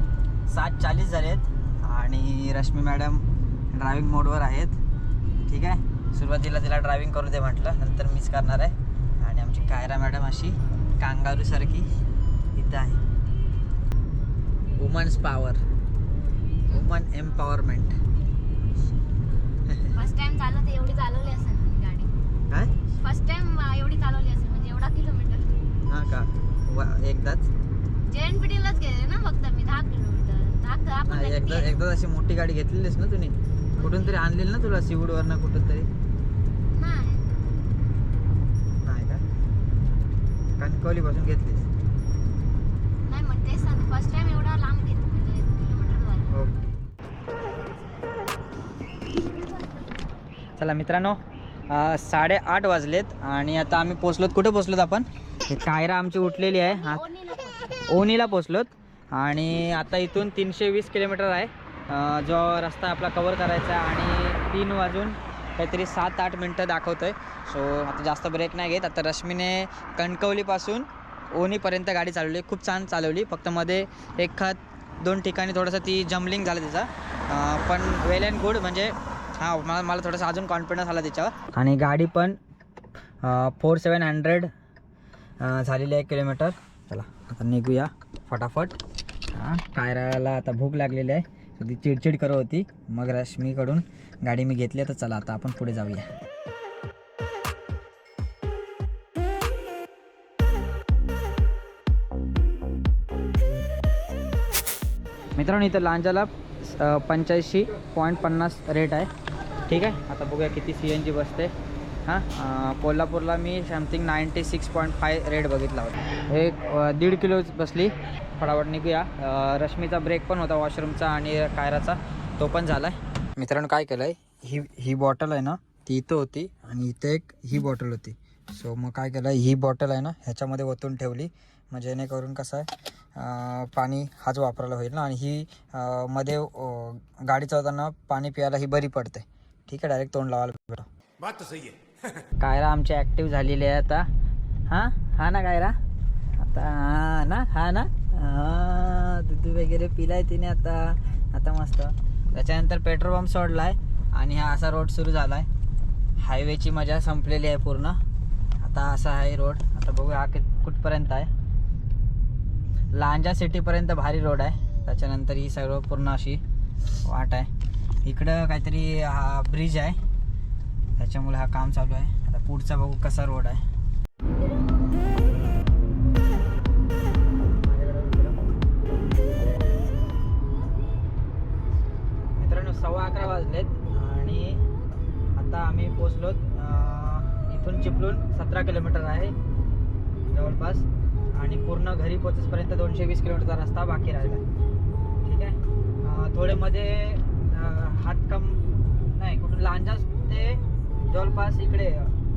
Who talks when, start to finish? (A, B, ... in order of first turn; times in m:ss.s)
0:00.5-0:04.8 A
0:05.5-0:11.9 A
0:12.6-0:13.0 A
0:14.8-0:15.6 A
0:16.7-0:18.0 A
0:19.9-0:22.1 B
0:23.0-0:25.5 B
0:25.9-0:27.5 A
0:28.1-0:31.8 B
0:31.0-0:35.9 A
0:33.8-0:34.2 B
0:36.7-0:37.4 B
0:38.8-0:39.2 A
0:40.6-0:41.7 A
0:43.1-0:46.3 B
0:46.3-0:46.6 A
0:50.6-0:51.2 A
0:51.7-0:57.0 A
0:56.5-0:57.8 B
0:57.9-1:22.4 A
1:23.2-1:24.5 A
1:25.4-1:28.8 A
1:29.3-1:36.1 A
1:45.4-1:49.1 A
1:49.7-1:51.5 A
1:52.1-2:20.9 A
2:22.4-2:24.1 A
2:24.7-2:25.7 A
2:26.4-2:35.5 A
2:36.2-2:38.0 A
2:38.6-2:41.3 A
2:42.9-2:46.4 A
2:47.0-2:47.5 A
2:48.0-2:50.0 A
2:51.0-2:53.6 A
2:57.5-2:58.5 A
3:02.4-3:04.6 A
3:05.4-3:09.3 A
3:10.3-3:14.4 A
3:15.2-3:18.6 A
3:19.1-3:22.1 A